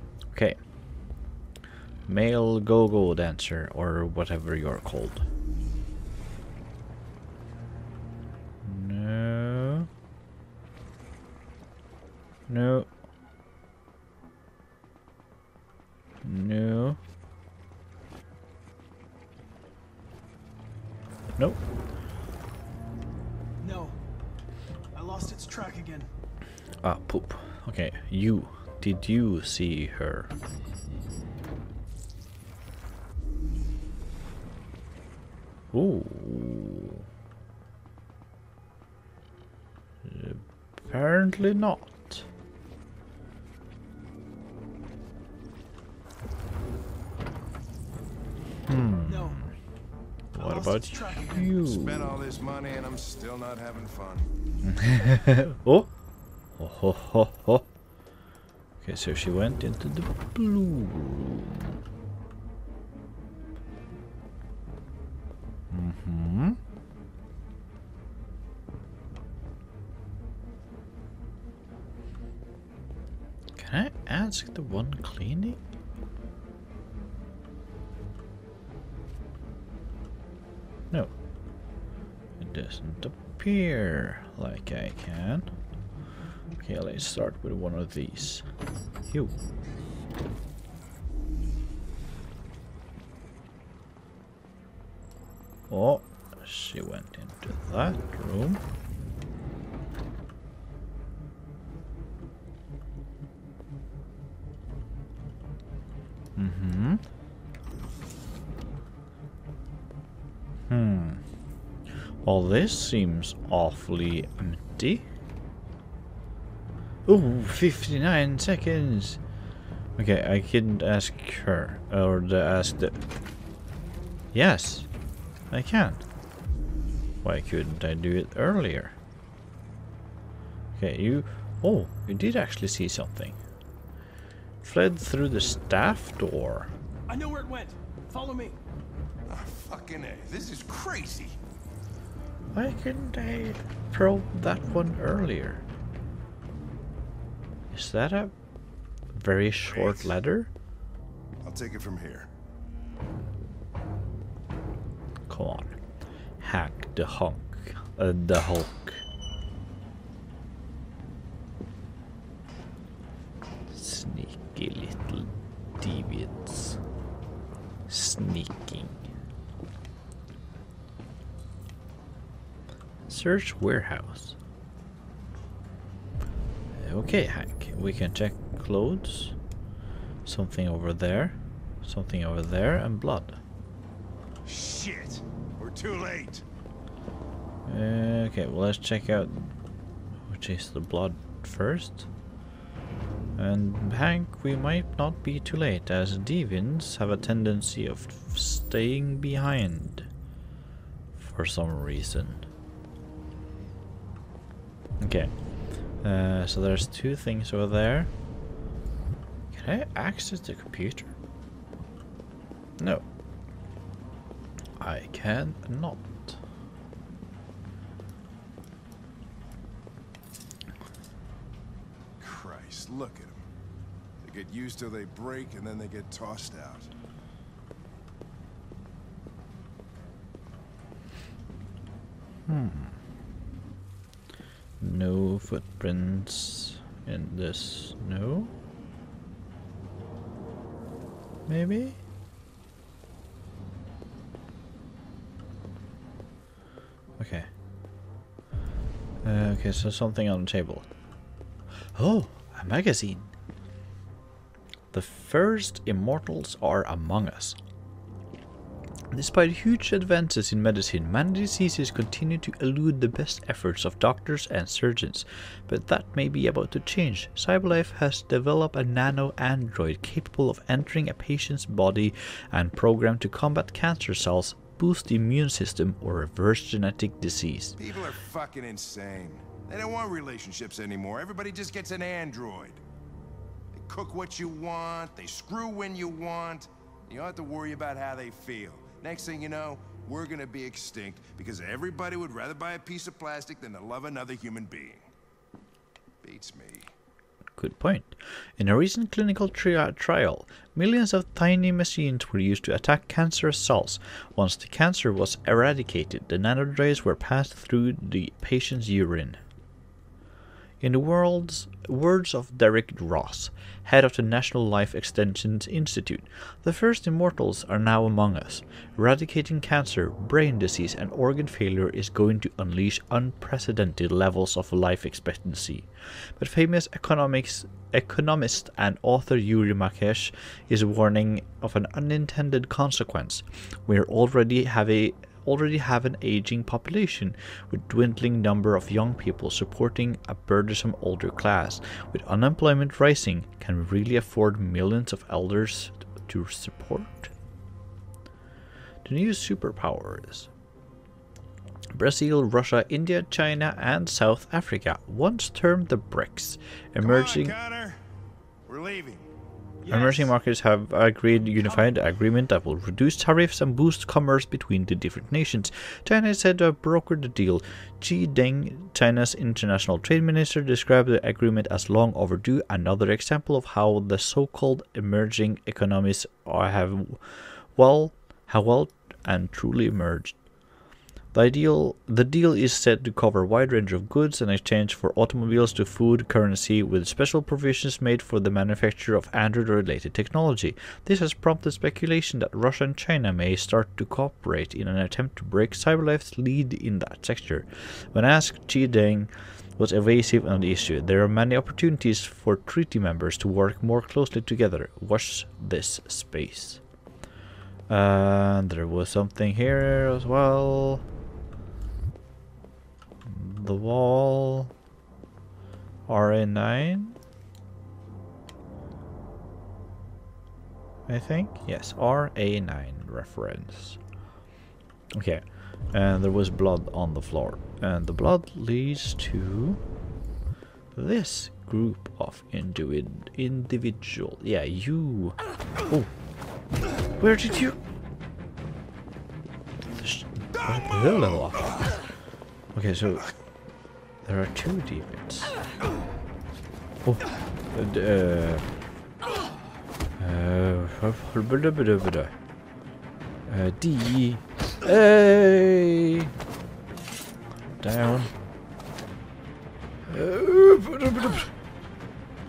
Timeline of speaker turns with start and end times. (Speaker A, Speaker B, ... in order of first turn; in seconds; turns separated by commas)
Speaker A: 0.3-0.7, Speaker A: 2.0-5.3, Speaker A: 8.6-9.9, Speaker A: 12.5-12.9, Speaker A: 16.2-17.0, Speaker B: 23.6-24.0, Speaker B: 24.9-26.1, Speaker A: 26.8-30.3, Speaker A: 35.7-37.0, Speaker A: 40.0-42.2, Speaker A: 48.6-49.5, Speaker B: 49.0-49.4, Speaker B: 50.3-51.6, Speaker A: 50.3-52.1, Speaker C: 51.7-54.3, Speaker A: 54.6-55.9, Speaker A: 56.6-57.6, Speaker A: 58.8-61.8, Speaker A: 65.7-66.6, Speaker A: 73.5-75.6, Speaker A: 82.4-85.5, Speaker A: 86.6-88.5, Speaker A: 95.7-98.6, Speaker A: 106.3-107.0, Speaker A: 110.7-111.2, Speaker A: 112.2-115.0, Speaker A: 117.0-119.2, Speaker A: 120.0-123.0, Speaker A: 124.3-124.9, Speaker A: 125.5-126.0, Speaker A: 127.2-128.9, Speaker A: 130.8-133.4, Speaker A: 134.6-136.7, Speaker B: 137.1-138.6, Speaker C: 139.3-141.3, Speaker A: 142.5-145.6, Speaker A: 147.7-148.3, Speaker A: 149.1-150.5, Speaker C: 149.6-150.2, Speaker C: 151.4-152.3, Speaker A: 155.3-155.8, Speaker A: 156.4-159.0, Speaker A: 163.7-166.8, Speaker A: 167.9-169.0, Speaker A: 173.1-174.4, Speaker A: 176.7-179.3, Speaker A: 180.2-183.4, Speaker C: 184.4-186.4, Speaker A: 187.7-189.6, Speaker A: 190.2-192.1, Speaker A: 193.4-200.1, Speaker A: 201.1-202.4, Speaker A: 205.0-208.1, Speaker A: 209.5-211.1, Speaker A: 212.8-213.0, Speaker A: 214.8-216.4, Speaker C: 222.2-223.4, Speaker C: 224.2-226.9, Speaker A: 232.5-233.0, Speaker A: 234.8-238.5, Speaker A: 241.5-242.0, Speaker A: 247.2-247.5, Speaker A: 249.2-250.9, Speaker A: 251.9-253.3, Speaker A: 254.9-257.6, Speaker A: 259.1-277.8, Speaker C: 277.8-282.8, Speaker C: 283.7-295.0, Speaker C: 296.2-296.9, Speaker A: 297.6-309.4, Speaker A: 310.8-347.3, Speaker A: 349.0-350.5, Speaker A: 351.9-357.5, Speaker C: 357.0-358.0, Speaker C: 358.7-359.2, Speaker B: 359.8-360.3, Speaker A: 359.9-380.4, Speaker B: 361.4-361.9, Speaker A: 381.3-406.8, Speaker A: 407.9-411.0, Speaker A: 413.2-414.7, Speaker A: 416.1-417.2, Speaker A: 421.1-424.0, Speaker A: 425.1-429.8, Speaker A: 430.9-436.1, Speaker A: 437.2-437.8, Speaker A: 440.0-441.9, Speaker A: 442.7-443.3, Speaker A: 444.2-445.6, Speaker A: 447.0-448.6, Speaker A: 450.2-452.3, Speaker A: 453.5-456.3, Speaker A: 457.8-458.3, Speaker A: 460.1-461.5